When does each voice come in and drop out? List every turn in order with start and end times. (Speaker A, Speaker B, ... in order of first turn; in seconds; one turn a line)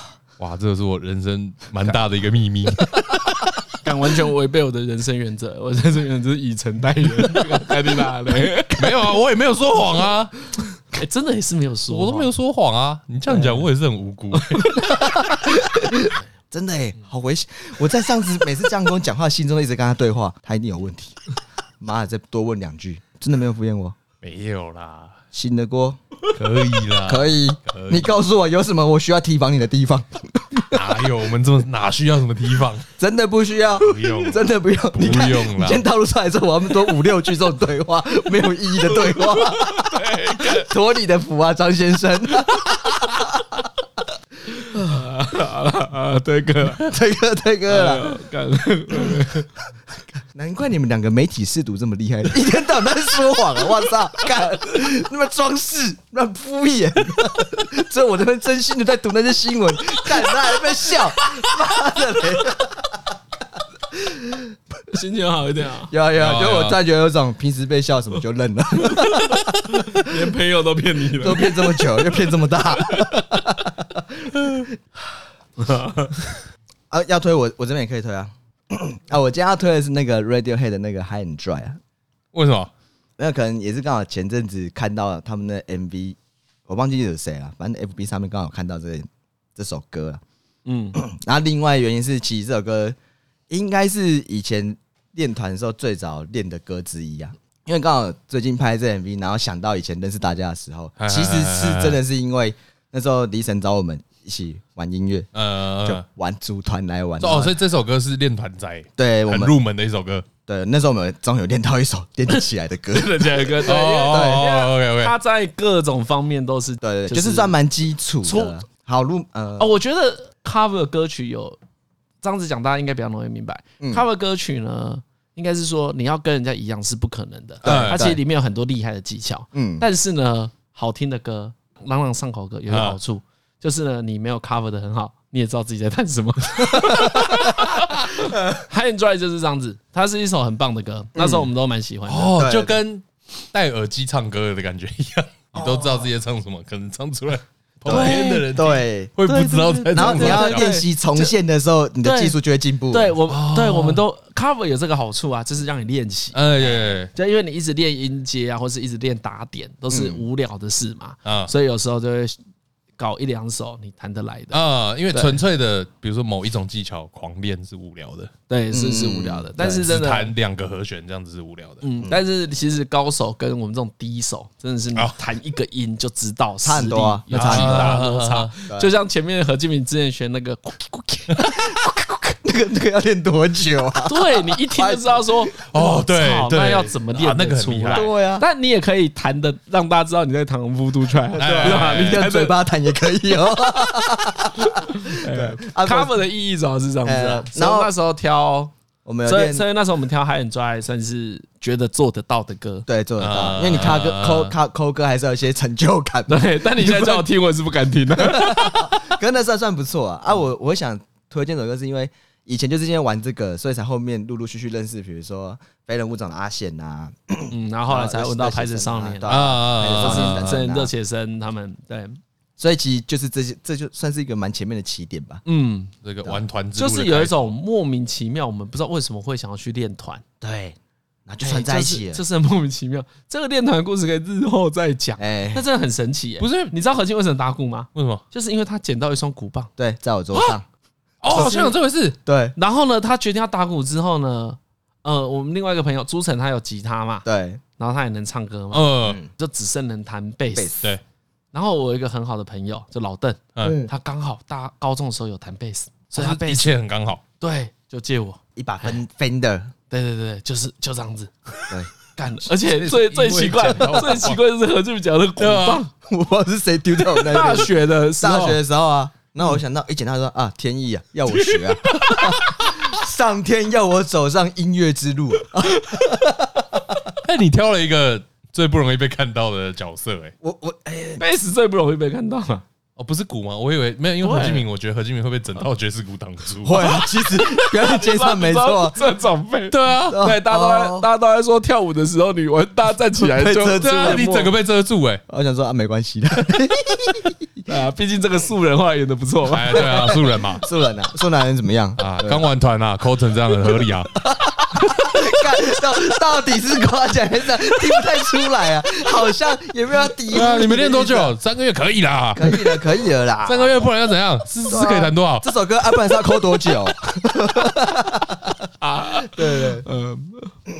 Speaker A: 0.4-3.4
Speaker B: 3.8-8.9
Speaker A: 8.7-10.3
Speaker B: 10.9-12.3
Speaker A: 11.9-14.7
Speaker B: 14.3-16.1
Speaker C: 14.8-21.2
Speaker C: 21.8-24.0
Speaker A: 24.2-25.2
Speaker C: 25.3-26.0
Speaker A: 26.3-28.1
Speaker C: 27.0-31.0
Speaker A: 30.7-32.9
Speaker C: 33.0-43.5
Speaker A: 33.8-35.8
Speaker B: 39.1-40.7
Speaker B: 44.6-46.9
Speaker C: 44.7-45.0
Speaker C: 46.8-48.2
Speaker B: 47.7-49.5
Speaker C: 50.3-63.1
Speaker C: 63.9-64.5
Speaker B: 64.9-65.9
Speaker C: 65.9-70.1
Speaker A: 66.1-66.8
Speaker B: 69.0-72.0
Speaker C: 71.2-74.8
Speaker B: 72.8-73.4
Speaker B: 75.6-76.3
Speaker C: 76.9-81.8
Speaker A: 82.3-82.7
Speaker C: 83.2-90.2
Speaker B: 90.7-91.0
Speaker C: 90.9-93.0
Speaker C: 93.5-105.3
Speaker A: 101.0-102.0
Speaker A: 105.3-106.0
Speaker C: 105.8-107.5
Speaker A: 107.2-110.3
Speaker C: 109.0-109.5
Speaker C: 110.5-114.5
Speaker B: 112.9-117.6
Speaker A: 113.6-115.1
Speaker C: 116.8-119.7
Speaker B: 118.2-118.6
Speaker B: 119.6-121.6
Speaker B: 122.2-142.3
Speaker C: 123.8-124.0
Speaker A: 127.6-128.0
Speaker C: 127.6-128.2
Speaker C: 129.5-129.8
Speaker A: 132.7-133.0
Speaker C: 136.7-137.5
Speaker C: 138.2-138.6
Speaker C: 141.2-141.5
Speaker A: 142.1-150.8
Speaker C: 142.3-142.8
Speaker C: 145.5-146.1
Speaker C: 147.8-149.1
Speaker B: 147.9-148.6
Speaker B: 149.2-151.3
Speaker C: 149.9-153.1
Speaker B: 152.0-152.4
Speaker B: 152.9-162.4
Speaker A: 153.3-154.0
Speaker A: 156.3-157.1
Speaker C: 159.9-160.2
Speaker A: 161.2-161.5
Speaker B: 163.0-164.6
Speaker A: 164.5-168.3
Speaker B: 168.5-170.3
Speaker C: 168.7-169.9
Speaker A: 169.6-171.8
Speaker B: 171.8-181.4
Speaker C: 176.6-178.0
Speaker A: 177.3-178.5
Speaker C: 181.3-185.4
Speaker B: 184.1-192.5
Speaker A: 185.5-188.1
Speaker C: 187.9-188.4
Speaker A: 191.4-192.2
Speaker C: 191.4-196.2
Speaker B: 194.7-198.7
Speaker C: 197.0-197.9
Speaker C: 199.0-199.6
Speaker B: 199.2-202.9
Speaker C: 202.9-207.2
Speaker A: 203.2-204.5
Speaker B: 206.3-208.9
Speaker C: 208.2-220.9
Speaker B: 217.5-222.2
Speaker A: 219.3-220.5
Speaker C: 222.6-225.4
Speaker B: 225.4-225.9
Speaker A: 226.0-227.5
Speaker B: 226.8-230.2
Speaker C: 230.4-232.2
Speaker B: 231.4-239.7
Speaker C: 235.2-235.6
Speaker A: 236.4-236.7
Speaker A: 237.9-238.2
Speaker C: 239.8-240.7
Speaker A: 241.2-242.2
Speaker B: 241.3-241.7
Speaker C: 241.3-241.6
Speaker C: 242.2-242.5
Speaker B: 242.6-247.2
Speaker C: 247.2-247.6
Speaker B: 247.8-250.8
Speaker A: 248.7-249.2
Speaker C: 250.5-250.9
Speaker B: 251.5-256.7
Speaker C: 253.6-253.9
Speaker A: 256.1-257.2
Speaker B: 257.4-258.9
Speaker C: 258.6-259.7
Speaker B: 259.9-265.9
Speaker A: 262.6-264.4
Speaker A: 265.4-265.8
Speaker C: 266.1-277.0
Speaker B: 267.1-268.6
Speaker B: 271.3-272.8
Speaker A: 277.2-280.3
Speaker C: 280.4-281.2
Speaker B: 281.2-282.6
Speaker A: 283.0-286.9
Speaker B: 284.2-284.6
Speaker C: 286.6-289.0
Speaker B: 286.7-294.2
Speaker A: 289.7-290.2
Speaker C: 290.1-291.1
Speaker C: 293.2-294.5
Speaker A: 293.8-295.2
Speaker C: 295.3-297.4
Speaker B: 297.6-300.1
Speaker A: 299.5-300.6
Speaker C: 299.7-302.4
Speaker A: 302.0-304.1
Speaker C: 303.7-311.3
Speaker A: 310.3-312.8
Speaker C: 312.3-313.8
Speaker A: 313.4-315.5
Speaker C: 314.7-318.6
Speaker B: 318.8-320.5
Speaker C: 319.2-319.8